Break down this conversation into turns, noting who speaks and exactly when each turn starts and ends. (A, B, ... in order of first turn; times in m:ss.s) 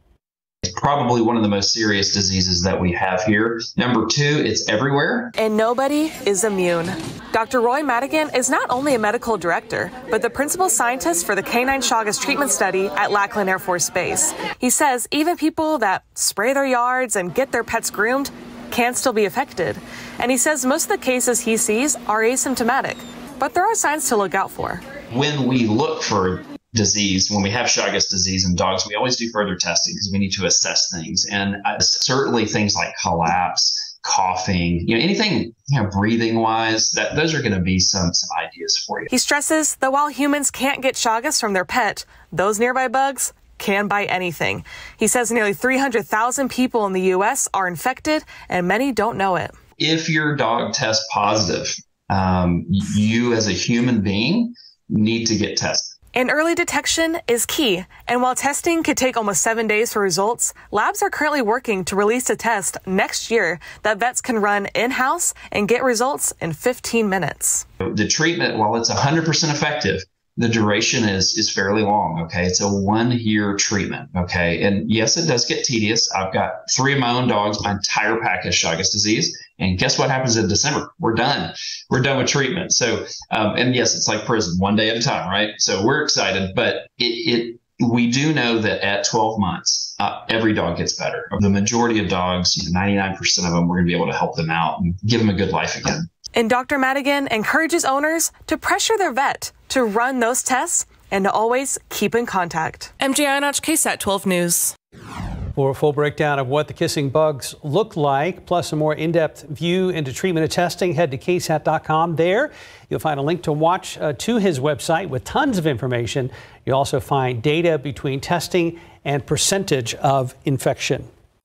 0:00.6-0:05.4 A
0:05.4-0:24.8 B
0:25.1-0:39.1 A
0:39.1-0:49.6 B
0:49.8-0:55.9 A
0:56.1-1:07.6 B
1:07.8-1:36.1 A
1:36.3-1:44.8 B
1:45.6-2:01.1 C